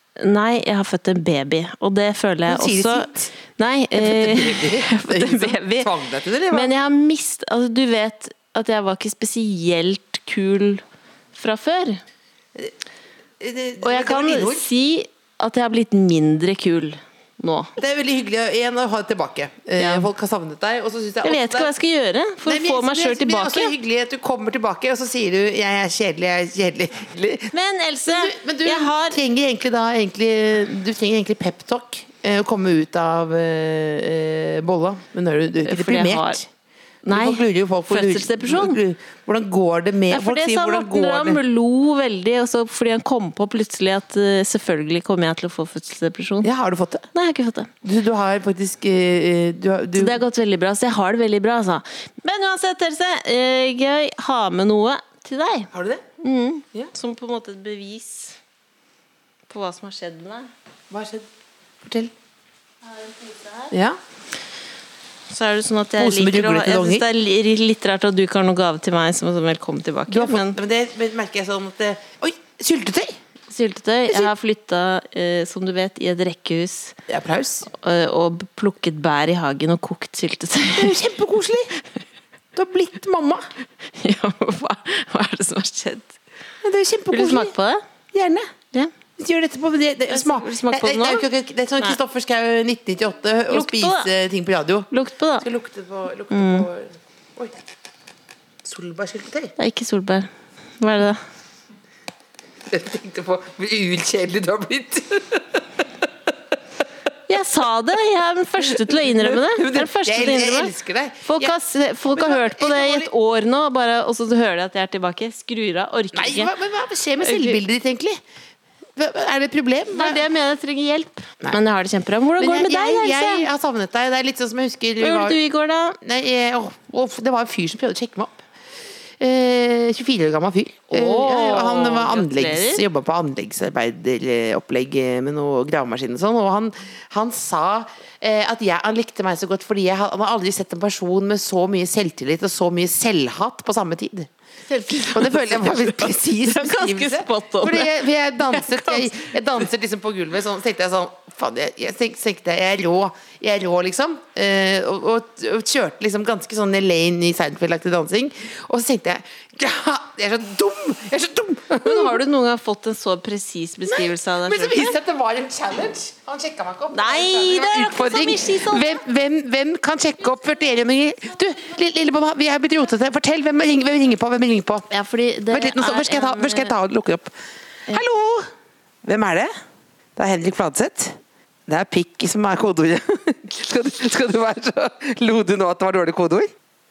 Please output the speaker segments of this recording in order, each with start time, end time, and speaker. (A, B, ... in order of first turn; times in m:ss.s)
0:00.2-0:05.9 A
0:02.5-0:03.3 B
0:04.0-0:06.7 B
0:06.5-0:10.8 A
0:11.3-0:12.0 A
0:13.4-0:14.7 B
0:13.8-0:17.7 A
0:17.8-0:21.7 B
0:19.8-0:20.1 A
0:21.2-0:23.7 A
0:22.4-0:27.5 B
0:27.5-0:29.2 A
0:28.1-0:36.5 B
0:35.6-0:36.4 A
0:37.0-0:38.8 A
0:37.1-0:41.4 B
0:40.1-0:46.5 A
0:46.4-0:47.1 B
0:47.1-0:47.7 A
0:47.8-0:50.2 B
0:49.9-0:55.7 A
0:55.7-0:56.0 B
0:56.2-0:58.4 A
0:59.5-1:00.5 A
1:00.9-1:01.3 B
1:01.8-1:02.1 B
1:02.8-1:03.7 A
1:03.7-1:04.0 B
1:05.3-1:10.6 A
1:06.0-1:07.0 B
1:10.1-1:13.2 B
1:13.5-1:17.0 A
1:17.1-1:17.6 B
1:17.7-1:21.0 A
1:20.7-1:21.7 B
1:22.5-1:23.5 B
1:24.0-1:26.1 A
1:26.6-1:27.5 B
1:27.1-1:27.8 A
1:28.1-1:28.5 B
1:29.2-1:34.9 B
1:30.1-1:31.2 A
1:33.5-1:34.1 A
1:34.9-1:35.5 A
1:35.4-1:37.5 B
1:36.3-1:36.7 A
1:38.6-1:39.5 B
1:39.6-1:40.3 A
1:40.8-1:41.2 A
1:42.7-1:45.6 B
1:47.3-1:50.7 A
1:49.5-1:51.5 B
1:51.2-1:56.5 A
1:52.1-1:53.1 B
1:56.1-1:58.2 B
1:57.2-1:57.6 A
1:59.0-2:00.2 B
1:59.9-2:03.5 A
2:02.4-2:05.4 B
2:05.0-2:06.0 A
2:06.0-2:08.4 B
2:09.2-2:24.3 B
2:10.9-2:12.8 A
2:24.7-2:29.3 A
2:25.0-2:42.2 B
2:41.8-2:44.9 A
2:43.9-2:54.9 B
2:46.9-2:49.0 A
2:54.9-2:56.7 A
2:55.5-2:57.3 B
2:57.9-2:58.5 B
2:59.0-2:59.5 B
3:00.2-3:06.5 B